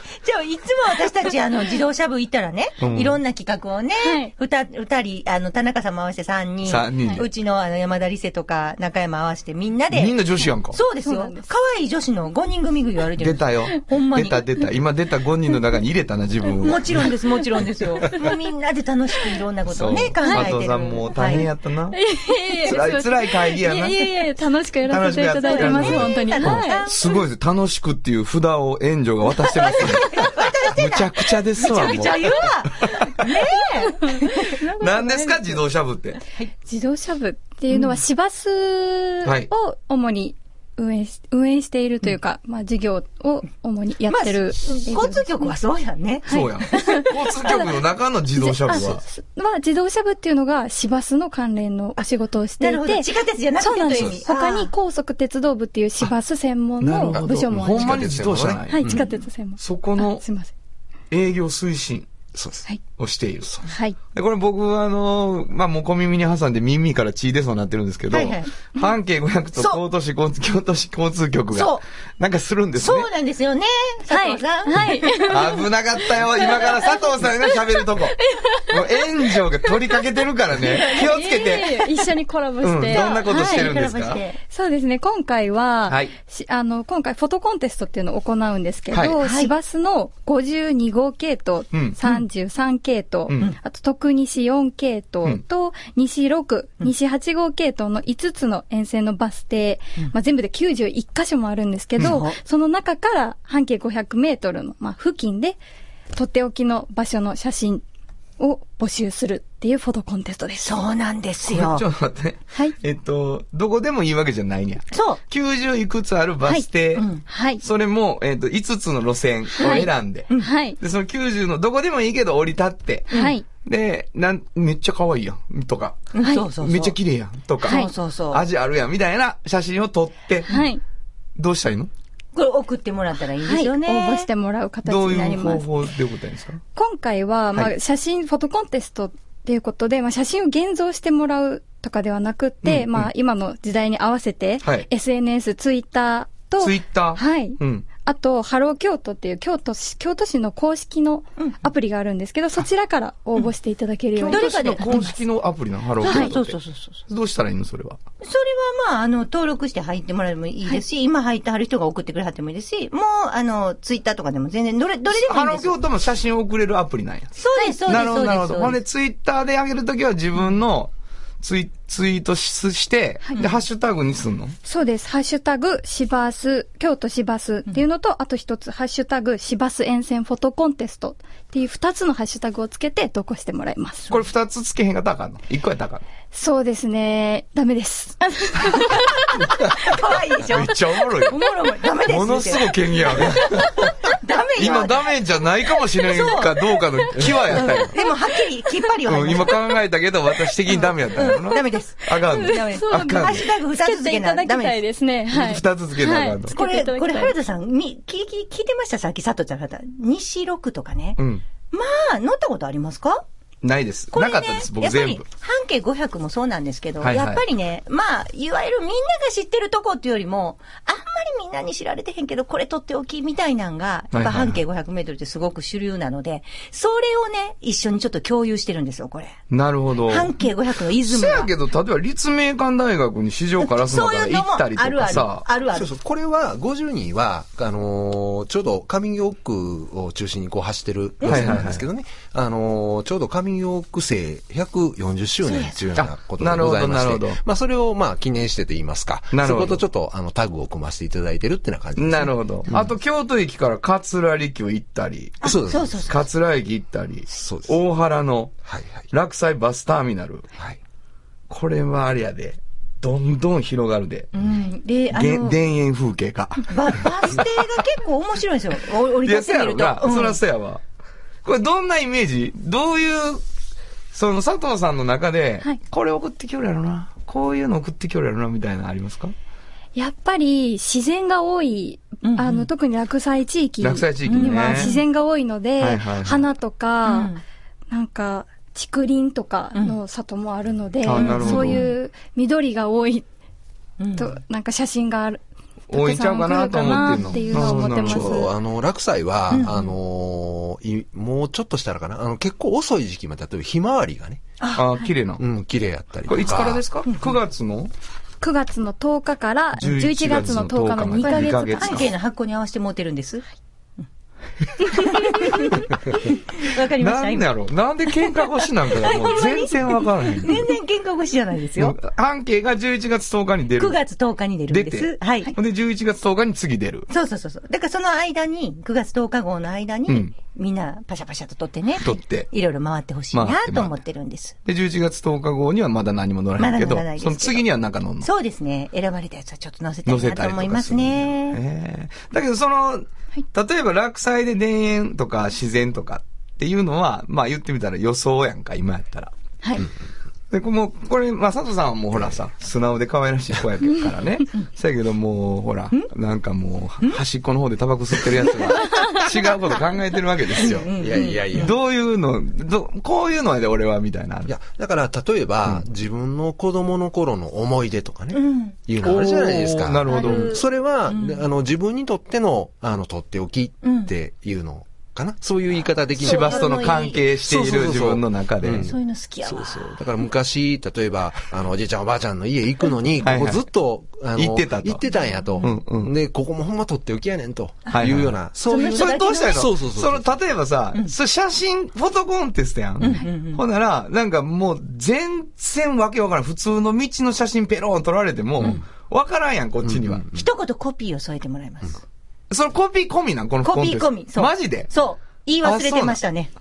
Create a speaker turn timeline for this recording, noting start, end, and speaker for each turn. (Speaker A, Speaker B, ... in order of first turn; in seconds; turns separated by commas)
Speaker A: 0.2-10.2, Speaker B: 2.8-3.2, Speaker C: 4.0-4.3, Speaker B: 6.6-7.3, Speaker B: 9.9-10.8, Speaker A: 10.7-14.4, Speaker C: 11.0-11.5, Speaker B: 13.2-17.1, Speaker A: 16.6-21.5, Speaker B: 19.7-24.3, Speaker C: 20.2-20.6, Speaker C: 21.9-26.9, Speaker B: 24.9-33.2, Speaker A: 25.4-27.2, Speaker A: 29.6-34.7, Speaker C: 33.8-35.4, Speaker B: 34.8-36.2, Speaker C: 36.6-45.5, Speaker A: 37.7-38.0, Speaker B: 39.2-39.5, Speaker A: 44.1-46.9, Speaker C: 46.3-47.7, Speaker B: 46.3-49.0, Speaker C: 48.4-58.2, Speaker A: 52.6-54.7, Speaker B: 56.8-59.1, Speaker D: 57.1-59.0, Speaker C: 58.7-60.5, Speaker B: 59.6-60.2, Speaker B: 61.1-62.1, Speaker D: 62.3-62.6, Speaker B: 63.0-63.6, Speaker C: 63.6-64.0, Speaker B: 64.1-73.1, Speaker A: 68.1-68.5, Speaker A: 71.5-71.8, Speaker A: 72.8-75.3, Speaker C: 74.1-75.6, Speaker B: 75.2-82.0, Speaker C: 76.3-77.5, Speaker C: 78.2-79.0, Speaker C: 79.7-80.0, Speaker C: 80.6-83.7, Speaker B: 82.6-84.2, Speaker A: 82.9-84.4, Speaker C: 84.4-105.6, Speaker B: 85.9-86.1, Speaker B: 88.9-89.2, Speaker A: 89.2-89.5, Speaker B: 91.7-92.2, Speaker A: 102.0-102.4, Speaker C: 106.1-107.8, Speaker C: 108.4-110.8, Speaker A: 110.6-111.8, Speaker B: 111.5-117.0, Speaker A: 114.9-115.2, Speaker A: 117.0-117.2, Speaker C: 117.2-117.6, Speaker B: 117.6-130.6, Speaker C: 119.6-120.8, Speaker A: 119.6-120.5, Speaker A: 123.1-123.3, Speaker C: 123.1-123.4, Speaker A: 126.1-127.0, Speaker A: 127.6-128.4, Speaker C: 127.6-127.9, Speaker C: 130.5-130.8, Speaker B: 131.4-131.9, Speaker A: 132.3-134.3, Speaker C: 133.4-135.7, Speaker B: 134.8-136.6, Speaker C: 136.8-155.1, Speaker B: 142.6-143.1, Speaker B: 144.6-144.9, Speaker B: 146.6-147.8, Speaker B: 154.2-158.0, Speaker A: 154.2-155.1, Speaker A: 156.0-157.0, Speaker C: 156.0-156.3, Speaker A: 158.2-165.8, Speaker B: 165.1-167.3, Speaker A: 167.3-168.8, Speaker B: 167.8-174.5, Speaker C: 174.6-184.1, Speaker B: 184.1-186.0, Speaker C: 186.3-189.3, Speaker A: 189.5-195.1, Speaker B: 190.4-191.4, Speaker B: 192.0-193.9, Speaker B: 194.6-197.9, Speaker A: 196.0-196.7, Speaker A: 197.5-199.6, Speaker B: 199.1-203.4, Speaker A: 200.7-204.8, Speaker C: 202.2-207.3, Speaker B: 205.3-206.5, Speaker A: 206.5-211.2, Speaker B: 211.2-211.4, Speaker A: 211.7-213.2, Speaker B: 213.6-215.2, Speaker A: 214.1-229.4, Speaker B: 217.0-217.4, Speaker B: 224.1-224.6, Speaker B: 229.5-230.3, Speaker A: 230.1-231.5, Speaker B: 231.0-235.4, Speaker A: 233.6-235.9, Speaker D: 235.7-252.9, Speaker A: 241.2-241.6, Speaker B: 241.2-241.8, Speaker A: 245.4-245.8, Speaker B: 245.9-247.4, Speaker B: 249.3-249.8, Speaker B: 252.0-255.4, Speaker A: 255.4-256.2, Speaker D: 255.4-256.2, Speaker B: 256.1-258.6, Speaker D: 257.3-257.8, Speaker D: 258.6-259.1, Speaker B: 259.1-260.5, Speaker B: 261.5-264.3, Speaker A: 264.3-265.6, Speaker B: 265.1-267.5, Speaker A: 266.6-270.4, Speaker B: 269.2-270.8, Speaker B: 271.4-273.4, Speaker B: 274.1-279.3, Speaker C: 279.9-287.3, Speaker A: 282.2-282.7, Speaker B: 283.8-284.9, Speaker A: 284.2-285.0, Speaker B: 285.8-286.5, Speaker A: 287.0-287.4, Speaker C: 287.9-293.2, Speaker B: 291.0-291.9, Speaker A: 291.1-291.9, Speaker A: 294.0-294.3, Speaker C: 294.2-295.4, Speaker B: 295.9-298.5, Speaker C: 295.9-298.5, Speaker D: 297.5-304.4, Speaker A: 299.5-299.9, Speaker A: 304.6-304.9, Speaker B: 304.8-305.4, Speaker D: 305.4-306.8, Speaker B: 306.2-307.9, Speaker A: 307.1-307.3, Speaker C: 308.4-312.1, Speaker B: 309.8-312.1, Speaker A: 311.1-313.4, Speaker A: 314.8-317.5, Speaker B: 317.0-320.7, Speaker A: 318.9-321.9, Speaker B: 321.8-324.0, Speaker A: 323.8-325.5, Speaker B: 324.7-327.1, Speaker A: 327.1-334.6, Speaker B: 330.1-330.3, Speaker B: 332.0-332.5, Speaker B: 333.3-333.9, Speaker B: 334.6-338.3, Speaker A: 336.6-337.6, Speaker A: 338.2-341.6, Speaker B: 340.1-349.3, Speaker B: 350.5-360.9, Speaker A: 360.6-361.7, Speaker D: 360.9-361.8, Speaker B: 361.5-364.5, Speaker D: 364.4-376.9, Speaker A: 368.3-368.8, Speaker B: 369.0-370.5, Speaker A: 370.1-371.4, Speaker A: 373.8-374.1, Speaker A: 376.2-377.2, Speaker B: 376.2-378.9, Speaker D: 377.4-390.3, Speaker A: 378.8-380.0, Speaker B: 383.2-383.6, Speaker B: 384.4-385.0, Speaker A: 385.1-385.7, Speaker B: 385.6-386.1, Speaker B: 387.9-400.3, Speaker A: 388.6-389.7, Speaker A: 393.0-393.6, Speaker D: 399.8-400.4, Speaker A: 400.3-402.0, Speaker B: 402.5-404.9, Speaker A: 403.6-406.5, Speaker B: 405.6-406.2